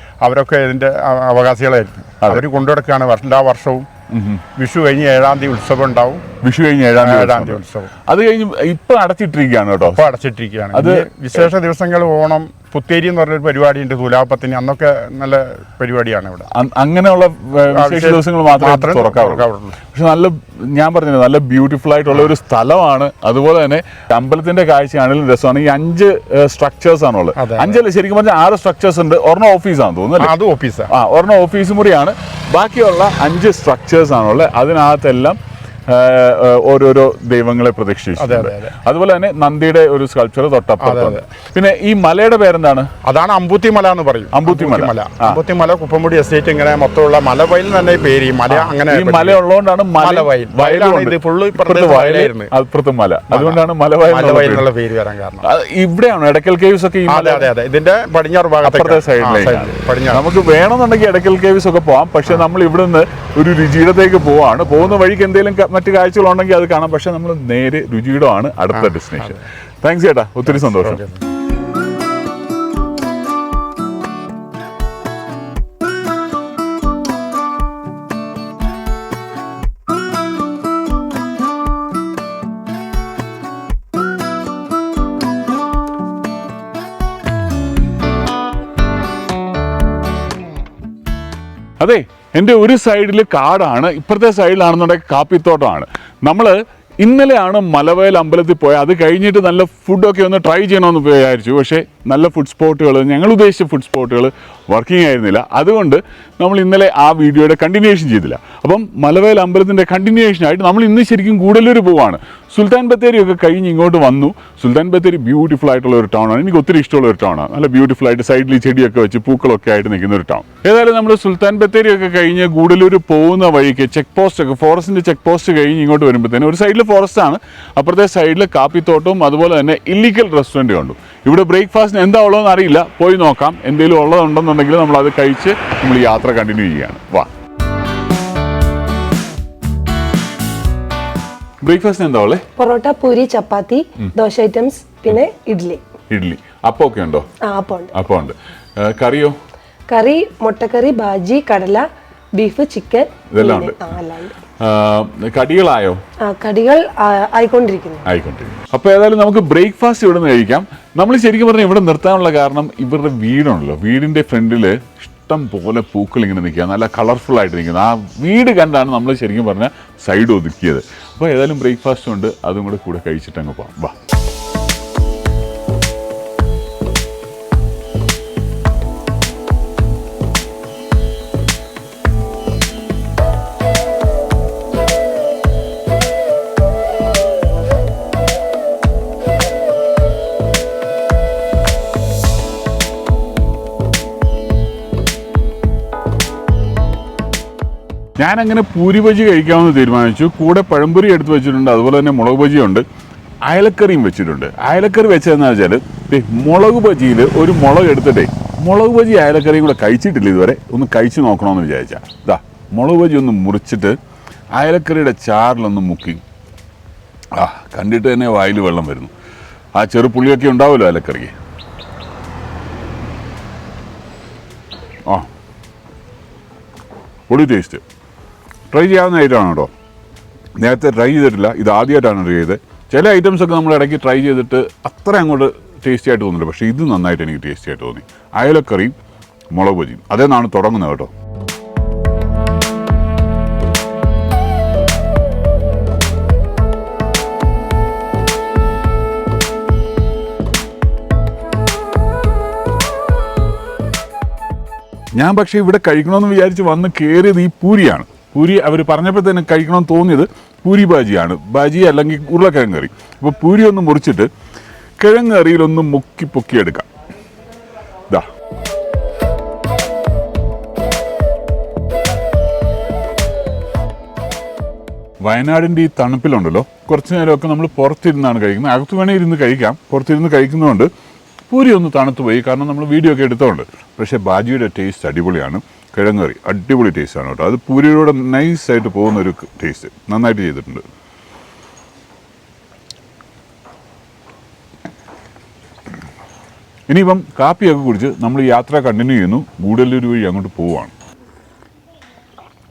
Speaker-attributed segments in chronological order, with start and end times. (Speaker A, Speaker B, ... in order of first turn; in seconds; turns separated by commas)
Speaker A: 0.2-3.9, Speaker B: 4.1-4.4, Speaker A: 4.6-6.2, Speaker B: 6.4-10.1, Speaker A: 7.0-7.9, Speaker A: 9.9-16.5, Speaker B: 10.7-11.5, Speaker B: 16.5-30.3, Speaker A: 17.7-19.8, Speaker A: 27.4-27.8, Speaker A: 30.2-30.9, Speaker B: 30.9-35.4, Speaker B: 35.9-42.9, Speaker A: 38.2-38.8, Speaker A: 40.8-41.2, Speaker A: 43.0-49.4, Speaker B: 44.3-45.4, Speaker B: 48.5-54.7, Speaker A: 50.0-52.5, Speaker A: 53.3-55.5, Speaker B: 55.4-57.5, Speaker A: 57.1-60.2, Speaker B: 58.6-71.0, Speaker A: 68.7-69.4, Speaker A: 70.5-71.2, Speaker B: 91.8-137.3, Speaker B: 141.6-142.4, Speaker C: 142.6-145.8, Speaker B: 146.1-147.3, Speaker C: 147.4-147.9, Speaker B: 147.9-149.4, Speaker C: 149.9-154.4, Speaker B: 153.3-154.0, Speaker B: 154.6-156.0, Speaker C: 156.2-158.1, Speaker B: 158.1-173.9, Speaker B: 198.2-202.8, Speaker B: 203.5-214.0, Speaker B: 214.5-216.2, Speaker B: 217.3-219.1, Speaker B: 219.8-221.3, Speaker B: 227.3-227.8, Speaker B: 228.7-229.7, Speaker B: 230.6-238.9, Speaker B: 239.5-241.1, Speaker B: 255.2-264.3, Speaker B: 265.0-266.9, Speaker B: 275.2-280.9, Speaker B: 281.5-290.8, Speaker B: 296.9-300.9